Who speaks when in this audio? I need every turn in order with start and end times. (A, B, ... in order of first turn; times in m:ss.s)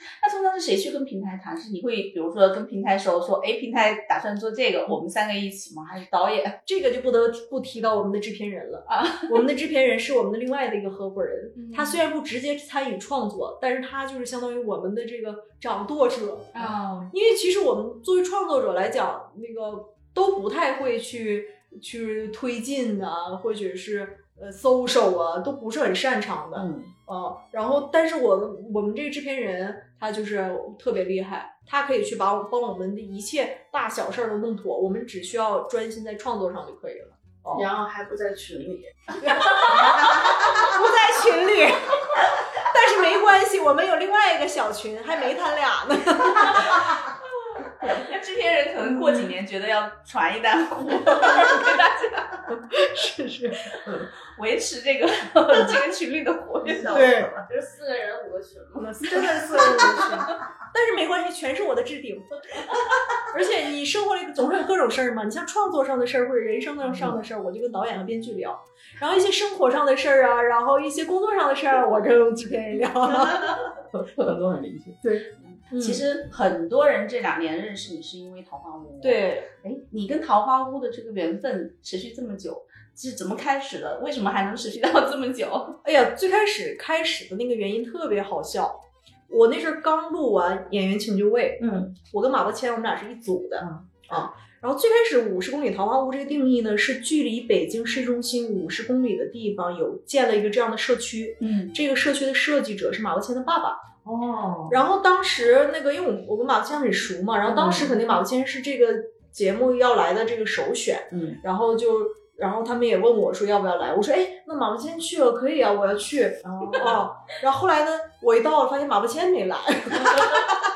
0:00.2-0:06.6 A
0:06.7-0:37.7 B
0:08.9-0:09.4 A
0:11.6-0:12.0 A
0:16.5-0:17.1 A
0:26.6-0:26.9 C
0:37.5-0:40.5 D
0:39.2-0:47.1 B
0:47.8-0:52.4 A
0:52.5-0:53.8 B
0:53.7-0:57.2 A
0:56.7-0:57.5 C
0:56.9-0:57.3 B
0:57.5-0:59.2 D
0:58.8-1:02.6 B
0:59.1-1:00.2 C
1:03.3-1:13.6 B
1:06.9-1:07.2 C
1:13.0-1:15.0 C
1:15.0-1:16.0 B
1:15.7-1:25.8 A
1:19.0-1:19.5 B
1:25.8-1:43.9 B
1:31.6-1:31.9 C
1:33.6-1:33.9 C
1:41.4-1:41.8 A
1:44.0-1:44.8 C
1:44.7-2:00.6 B
1:47.6-1:47.9 C
1:51.1-1:51.4 C
1:56.4-1:57.0 C